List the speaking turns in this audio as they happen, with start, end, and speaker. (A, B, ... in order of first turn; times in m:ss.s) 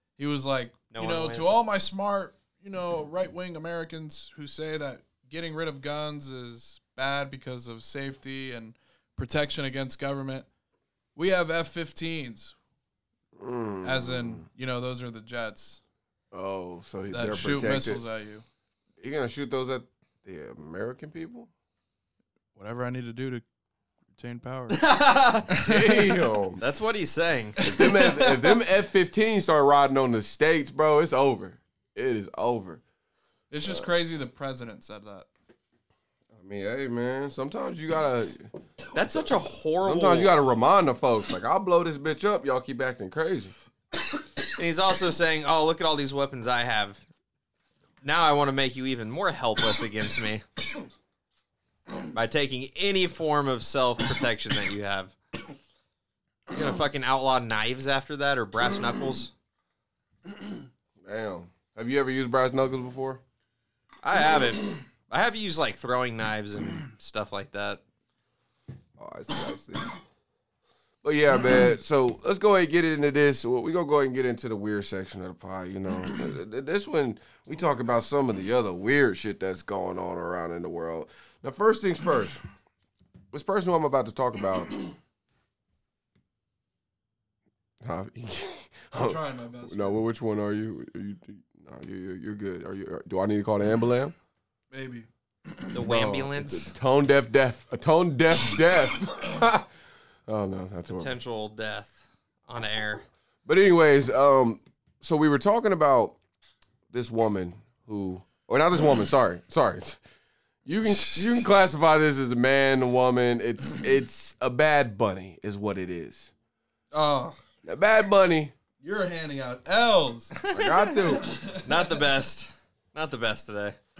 0:00.2-0:10.5 A
0:00.9-0:01.5 B
0:11.2-0:12.6 A
0:13.4-0:14.5 C
0:13.8-0:15.8 A
0:16.3-0:18.0 C
0:17.1-0:18.4 A
0:19.0-0:21.5 C
0:22.6-0:23.4 A
0:24.1-0:24.9 A
0:24.7-0:25.5 B
0:25.5-0:26.3 A
0:25.6-0:26.6 C
0:26.6-0:27.6 B
0:27.6-0:28.6 A
0:27.6-0:32.8 C
0:33.5-0:35.3 A
0:36.3-0:39.3 C
0:38.9-0:40.3 B
0:39.8-0:43.5 C
0:44.6-0:47.0 B
0:48.0-0:50.4 B
0:52.1-0:55.2 B
0:56.5-0:59.3 B
1:01.0-1:03.2 C
1:04.0-1:07.8 B
1:09.0-1:09.9 C
1:11.0-1:22.4 C
1:23.3-1:24.9 C
1:27.8-1:34.2 C
1:29.0-1:30.0 A
1:34.7-1:35.6 A
1:35.7-1:36.7 B
1:35.8-1:39.7 C
1:40.3-1:41.2 C
1:40.9-1:43.1 B
1:43.4-1:46.2 C
1:46.9-1:50.0 C
1:50.6-1:56.3 C
1:56.9-1:57.4 A
1:57.6-1:58.6 C
1:58.8-2:00.4 A
2:00.4-2:03.8 B
2:00.5-2:01.3 C
2:01.2-2:01.9 A